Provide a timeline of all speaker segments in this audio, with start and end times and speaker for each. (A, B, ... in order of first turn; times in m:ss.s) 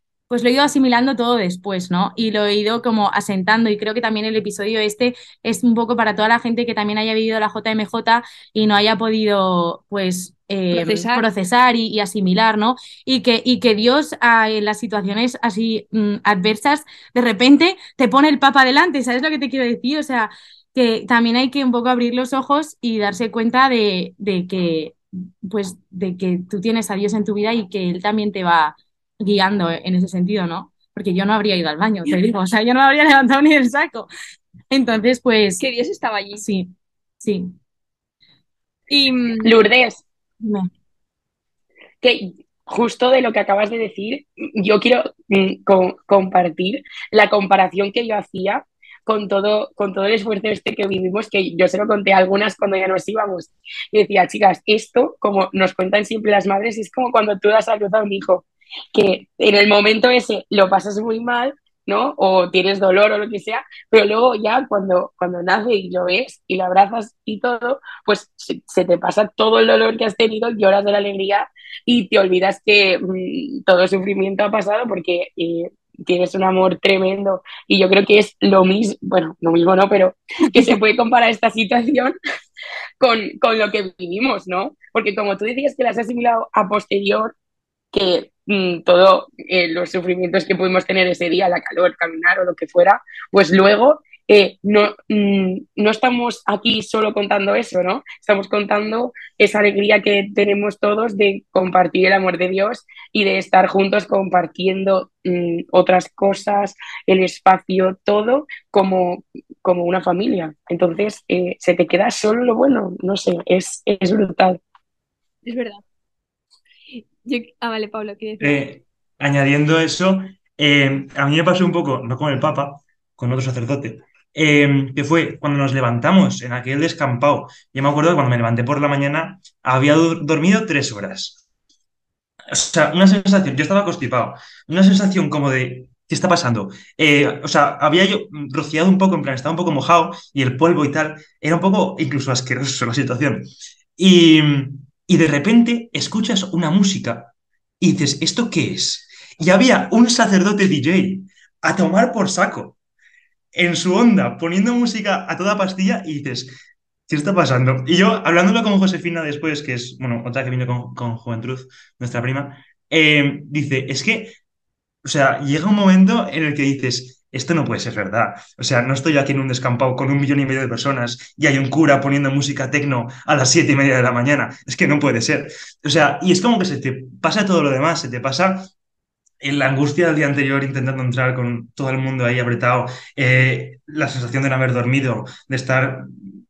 0:00.3-0:34.1 A
0:10.7-0:11.3 B
0:34.7-0:35.6 A
0:35.6-0:36.4 B
0:36.4-0:37.6 A
0:38.9-0:39.6 B
0:39.4-0:40.0 C
0:40.4-0:40.7 A
0:42.0-1:22.2 C
1:23.0-1:27.3 C
1:27.9-1:54.6 C
1:55.4-1:55.8 B
1:57.0-1:58.6 B
1:58.4-2:11.4 D
2:12.5-2:32.8 D
2:33.5-2:36.5 D
2:37.1-2:44.4 D
2:45.0-2:58.7 D
2:59.4-3:06.1 D